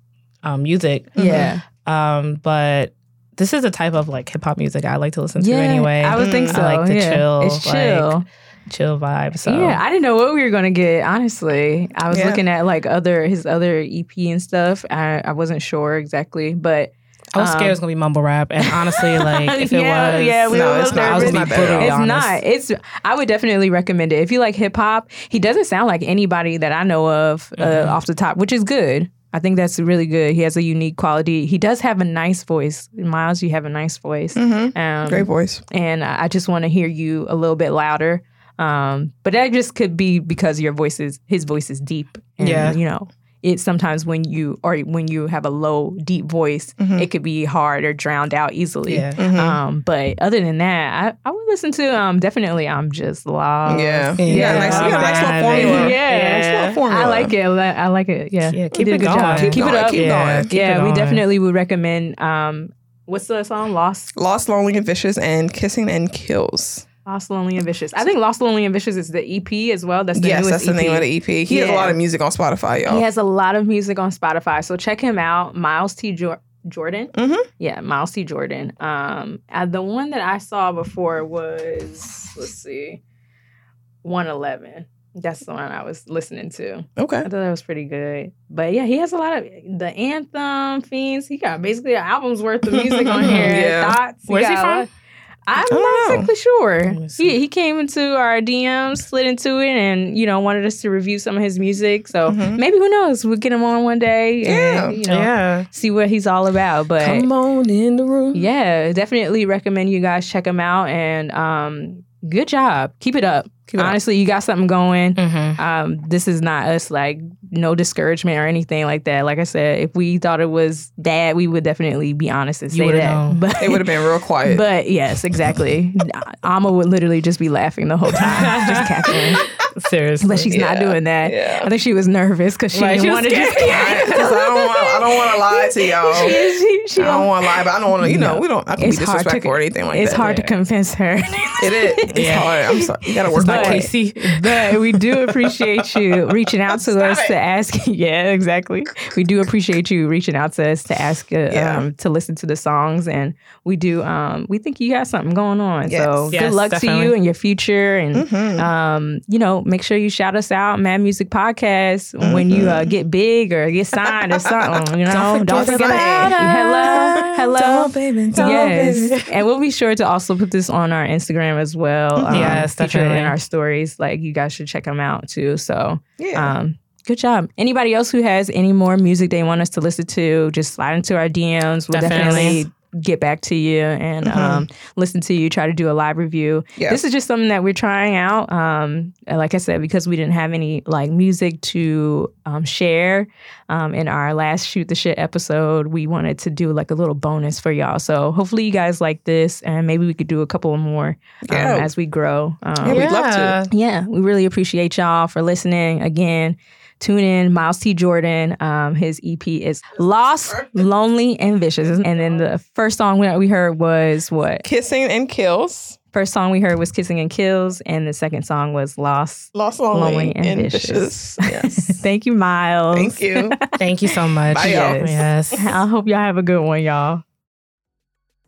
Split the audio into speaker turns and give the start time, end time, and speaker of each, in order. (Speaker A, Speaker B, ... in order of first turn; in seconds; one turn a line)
Speaker A: 0.4-9.8
Speaker B: 1.2-1.5
Speaker C: 1.2-1.6
Speaker C: 5.4-8.3
Speaker B: 6.2-6.6
Speaker C: 9.4-17.8
Speaker B: 12.1-12.4
Speaker A: 17.3-22.4
Speaker C: 18.6-64.1
Speaker B: 20.5-22.0
Speaker A: 27.6-28.0
Speaker B: 34.4-35.6
Speaker A: 42.4-42.8
Speaker B: 46.8-47.1
Speaker A: 48.9-49.2
Speaker B: 49.2-49.6
Speaker B: 53.7-57.3
Speaker A: 54.2-56.8
Speaker A: 58.5-61.2
Speaker B: 59.3-60.5
Speaker B: 64.2-66.8
Speaker C: 67.1-72.0
Speaker B: 70.2-73.0
Speaker C: 72.9-83.0
Speaker B: 77.1-77.5
Speaker C: 84.0-94.9
Speaker B: 87.0-87.3
Speaker B: 92.7-94.0
Speaker A: 93.2-93.6
Speaker A: 94.3-94.9
Speaker C: 95.5-107.3
Speaker B: 95.7-96.3
Speaker A: 96.9-97.4
Speaker B: 102.3-102.6
Speaker B: 104.4-105.0
Speaker A: 105.0-105.7
Speaker B: 107.0-108.5
Speaker C: 108.3-123.9
Speaker B: 113.7-114.0
Speaker A: 115.2-115.6
Speaker A: 122.7-123.4
Speaker B: 123.6-124.7
Speaker C: 124.4-129.4
Speaker A: 128.2-129.2
Speaker A: 129.7-130.5
Speaker C: 130.2-142.4
Speaker B: 130.5-131.7
Speaker A: 132.7-134.2
Speaker B: 133.7-136.4
Speaker B: 136.9-140.4
Speaker A: 140.2-140.6
Speaker B: 141.6-143.9
Speaker A: 142.1-142.5
Speaker C: 143.2-203.1
Speaker A: 143.3-144.7
Speaker B: 146.7-147.4
Speaker B: 151.5-151.9
Speaker B: 155.9-156.5
Speaker A: 156.3-157.2
Speaker B: 158.1-158.7
Speaker B: 162.2-162.9
Speaker B: 165.1-169.2
Speaker A: 165.5-167.3
Speaker A: 168.4-169.2
Speaker B: 172.2-172.7
Speaker A: 172.3-173.4
Speaker B: 176.2-176.5
Speaker A: 181.9-182.6
Speaker B: 184.2-184.7
Speaker B: 201.5-201.9
Speaker B: 202.8-203.7
Speaker A: 202.9-203.7
Speaker C: 203.7-214.7
Speaker B: 214.6-216.0
Speaker C: 216.1-227.2
Speaker B: 219.5-222.0
Speaker B: 222.9-223.6
Speaker A: 223.8-225.6
Speaker B: 224.5-225.6